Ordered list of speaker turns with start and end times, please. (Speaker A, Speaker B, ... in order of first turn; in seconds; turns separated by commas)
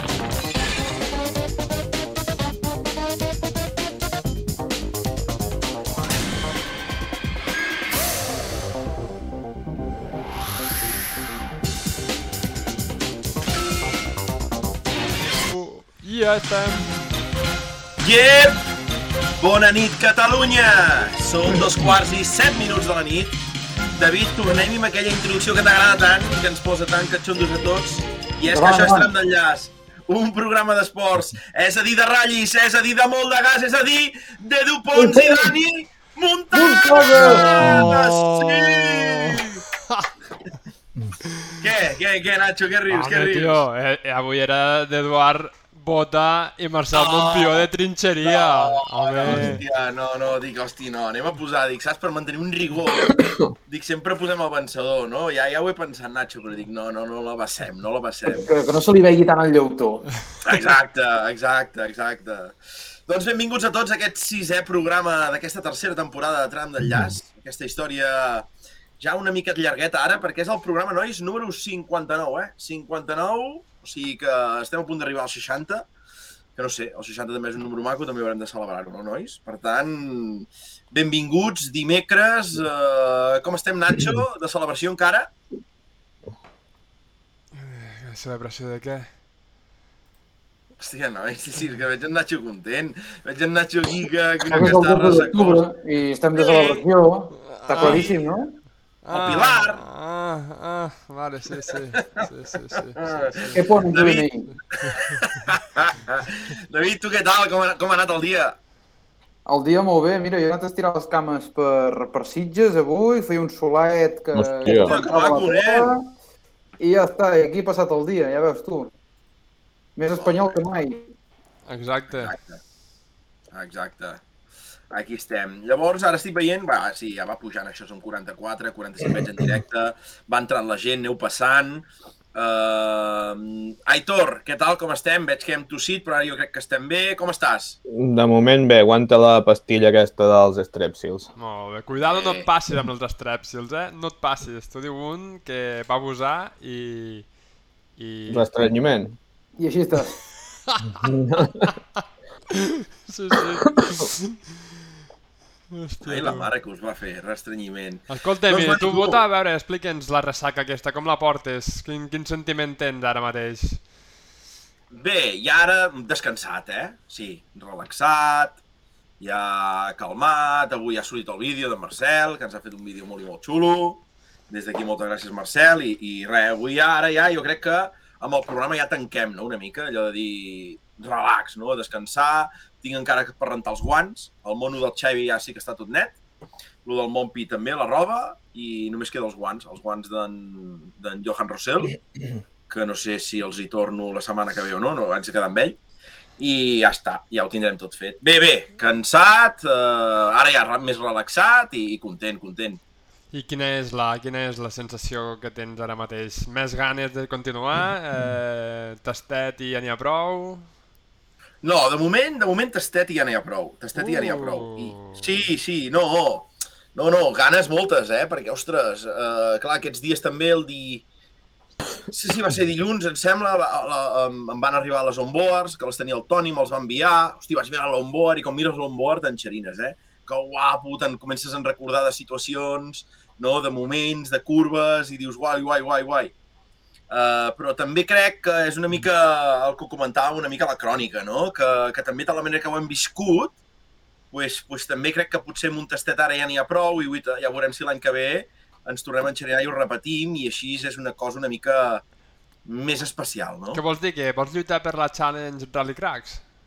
Speaker A: 15.2-17.2, Speaker B: 18.0-18.6, Speaker B: 19.4-23.4, Speaker B: 24.0-39.6, Speaker C: 28.5-29.1, Speaker C: 34.9-35.6, Speaker C: 36.5-37.9, Speaker A: 37.1-40.1, Speaker A: 41.4-41.6, Speaker B: 41.6-43.6, Speaker A: 42.9-49.6, Speaker B: 46.9-47.7, Speaker B: 48.2-58.5, Speaker D: 49.3-49.6, Speaker C: 58.3-60.1, Speaker B: 60.4-68.5, Speaker B: 69.0-75.9, Speaker B: 76.6-85.3, Speaker A: 87.5-89.1, Speaker B: 90.8-95.7, Speaker C: 94.5-98.5, Speaker B: 96.4-96.8, Speaker A: 97.3-98.1, Speaker B: 97.8-98.2, Speaker A: 99.0-103.7, Speaker B: 99.1-99.8, Speaker B: 101.7-102.3, Speaker B: 103.0-108.6, Speaker C: 103.5-104.5, Speaker A: 104.8-105.5, Speaker C: 109.5-116.1, Speaker D: 114.3-114.9, Speaker B: 114.7-116.0, Speaker C: 116.8-118.9, Speaker C: 120.0-121.0, Speaker B: 120.1-120.6, Speaker A: 121.7-122.3, Speaker B: 122.2-122.6, Speaker B: 123.5-124.2, Speaker B: 124.9-137.8, Speaker D: 137.9-141.3, Speaker A: 141.4-147.3, Speaker B: 141.9-142.5, Speaker A: 148.0-148.5, Speaker D: 148.3-149.2, Speaker C: 149.6-150.2, Speaker A: 150.7-151.1, Speaker D: 151.0-151.7, Speaker A: 152.6-154.4, Speaker A: 155.7-156.5, Speaker B: 156.0-159.2, Speaker A: 158.1-163.9, Speaker B: 164.9-168.6, Speaker B: 169.2-186.2, Speaker B: 186.8-192.0, Speaker B: 192.7-195.8, Speaker B: 196.4-202.8, Speaker A: 203.3-210.7, Speaker B: 211.6-221.0, Speaker A: 214.0-215.3, Speaker B: 222.0-236.3, Speaker B: 237.1-243.6, Speaker B: 244.3-252.0, Speaker B: 252.7-253.8, Speaker A: 253.7-256.4